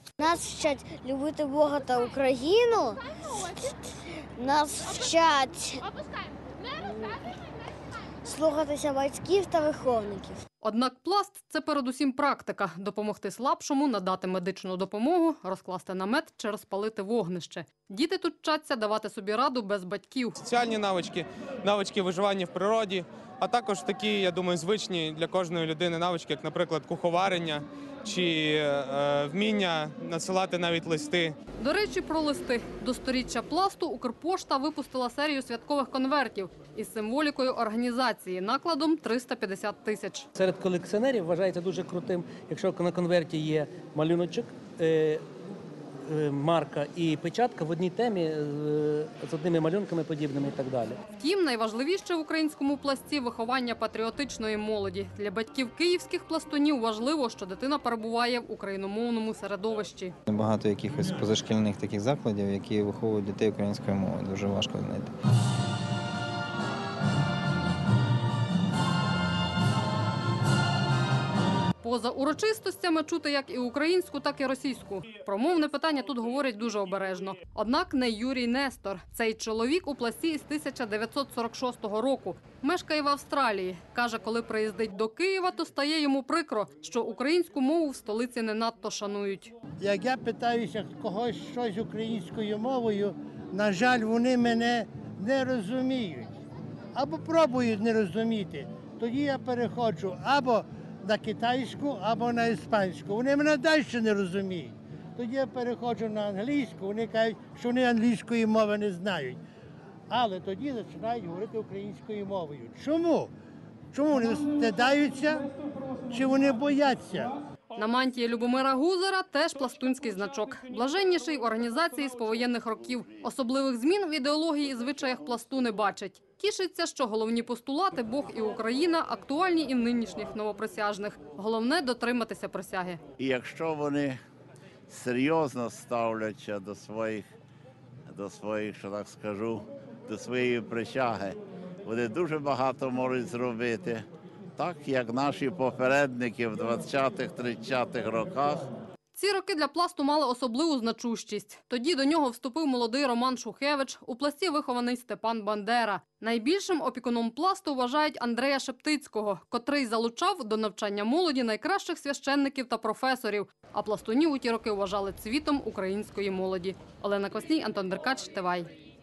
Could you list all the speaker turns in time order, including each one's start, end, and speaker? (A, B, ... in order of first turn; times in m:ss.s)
0:00.2-0:05.8 A
0:06.7-0:07.2 A
0:08.2-0:10.4 A
0:10.6-0:20.4 B
0:20.4-0:31.3 C
0:31.6-0:40.3 B
0:40.4-0:45.2 D
0:46.1-0:51.0 D
0:51.2-1:00.1 B
1:00.3-1:05.1 E
1:11.8-1:29.5 B
1:29.8-1:36.3 F
1:36.9-1:49.4 F
1:50.1-1:53.3 F
1:53.9-1:55.5 F
1:56.1-1:57.4 F
1:57.8-2:13.0 B
2:13.2-2:14.2 G
2:14.9-2:17.3 G
2:18.1-2:28.6 G
2:29.1-2:48.7 B